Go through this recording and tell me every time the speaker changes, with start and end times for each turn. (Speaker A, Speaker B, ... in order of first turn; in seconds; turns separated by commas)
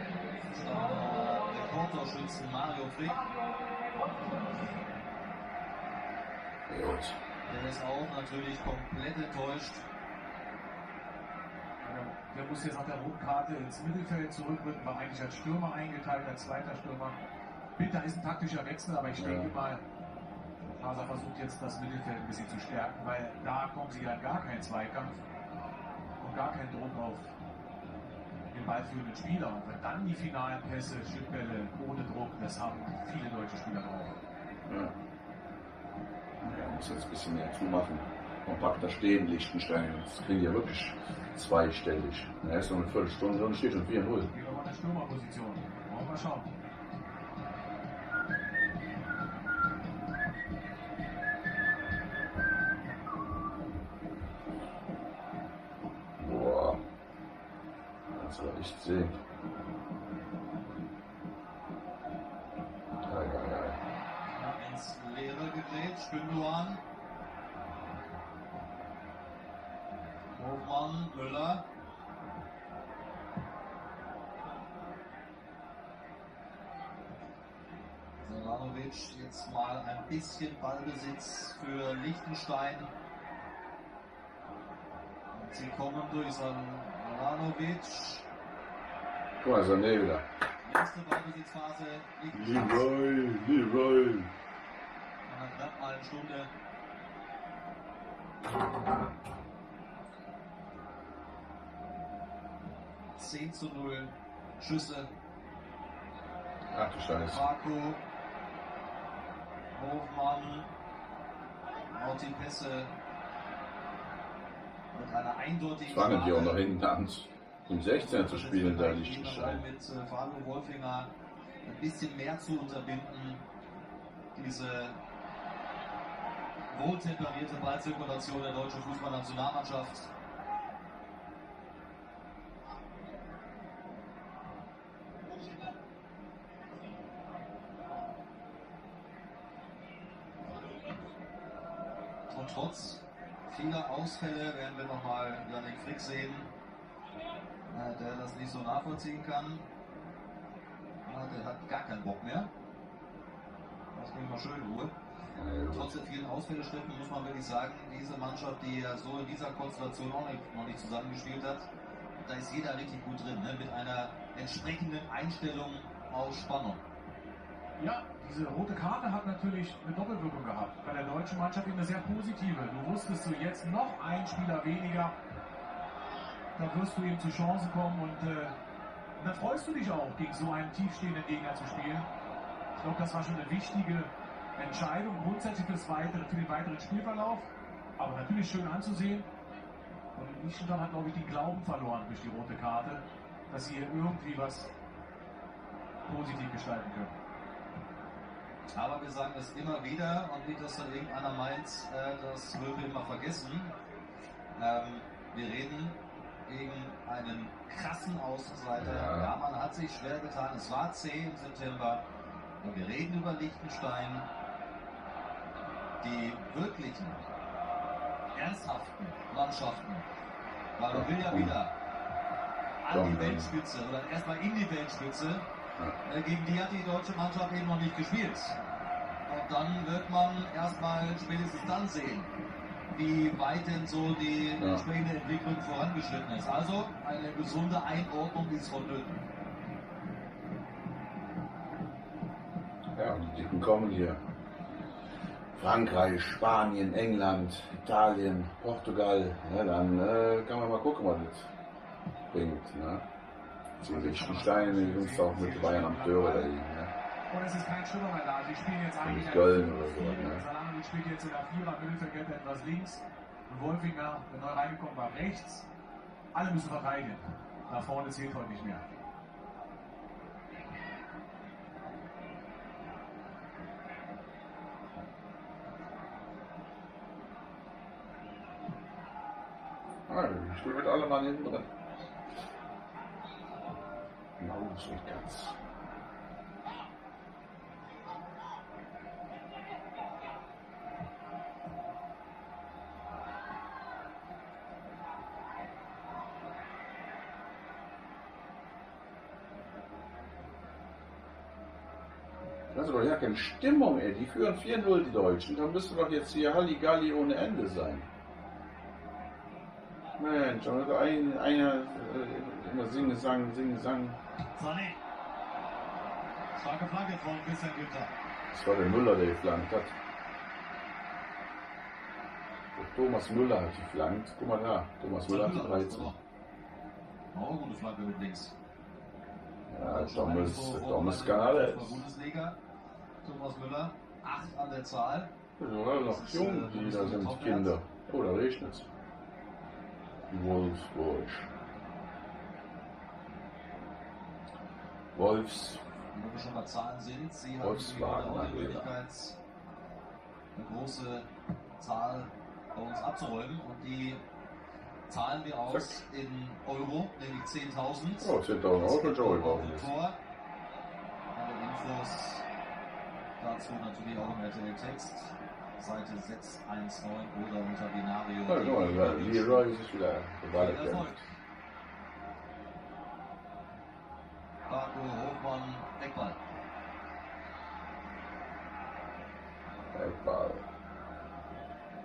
Speaker A: 0.5-3.3, Speaker B: 6.7-7.2, Speaker A: 7.5-9.8, Speaker C: 11.8-17.2, Speaker C: 17.8-19.8, Speaker B: 19.1-19.5, Speaker C: 20.8-25.2, Speaker C: 26.2-27.3, Speaker C: 28.5-34.1, Speaker B: 34.7-34.9, Speaker B: 36.4-44.3, Speaker C: 44.3-46.5, Speaker B: 56.2-56.8, Speaker B: 58.1-59.2, Speaker B: 63.0-63.8, Speaker A: 64.3-66.8, Speaker A: 70.4-71.7, Speaker A: 78.2-82.9, Speaker A: 85.3-88.2, Speaker B: 89.4-90.2, Speaker A: 90.6-92.9, Speaker B: 92.3-94.3, Speaker A: 95.3-96.5, Speaker A: 103.2-105.1, Speaker B: 106.7-107.4, Speaker A: 107.3-108.0, Speaker A: 109.8-110.7, Speaker A: 111.9-112.9, Speaker A: 114.9-116.6, Speaker B: 115.9-119.6, Speaker A: 117.9-121.1, Speaker A: 121.7-123.4, Speaker A: 124.3-125.0, Speaker A: 126.7-130.1, Speaker A: 142.3-146.5, Speaker A: 147.7-149.7, Speaker A: 151.1-152.5, Speaker A: 153.9-154.9, Speaker B: 155.4-156.0, Speaker A: 155.7-161.7, Speaker A: 162.2-166.8, Speaker C: 167.8-175.2, Speaker C: 176.6-178.6, Speaker C: 179.2-182.1, Speaker C: 182.8-187.5, Speaker C: 188.0-189.3, Speaker C: 190.2-194.7, Speaker C: 196.1-197.1, Speaker A: 198.8-203.7, Speaker A: 204.6-212.0, Speaker B: 208.8-209.3, Speaker A: 212.6-214.3, Speaker A: 216.0-217.2, Speaker A: 218.3-220.1, Speaker A: 220.8-221.7, Speaker B: 220.9-221.5, Speaker A: 222.8-225.5, Speaker B: 222.9-223.5, Speaker A: 226.1-228.6, Speaker A: 229.3-232.3, Speaker A: 232.9-239.2, Speaker B: 234.6-234.8, Speaker B: 243.0-244.2, Speaker B: 245.6-251.5, Speaker B: 252.3-253.0, Speaker C: 253.8-256.5, Speaker B: 253.8-256.9, Speaker C: 257.3-265.6, Speaker B: 259.0-260.4, Speaker C: 266.3-268.8, Speaker B: 280.1-281.7, Speaker B: 284.4-285.6, Speaker B: 302.7-308.1, Speaker B: 310.2-314.2, Speaker A: 314.6-315.0, Speaker A: 316.6-318.1, Speaker B: 318.5-319.9, Speaker B: 322.8-326.1, Speaker A: 325.3-326.2, Speaker A: 327.3-328.5, Speaker B: 329.7-332.0, Speaker A: 329.8-332.6, Speaker A: 333.2-335.3, Speaker B: 335.6-338.9, Speaker A: 336.0-337.8, Speaker B: 340.3-341.5, Speaker B: 345.1-345.8, Speaker A: 346.1-349.4, Speaker B: 347.6-348.9, Speaker A: 350.6-351.3, Speaker A: 351.8-354.2, Speaker A: 355.1-360.2, Speaker B: 355.7-356.0, Speaker B: 358.2-359.9, Speaker A: 361.4-362.4, Speaker A: 363.4-369.7, Speaker B: 368.5-371.2, Speaker A: 370.5-371.3, Speaker A: 374.7-376.4, Speaker B: 379.9-380.6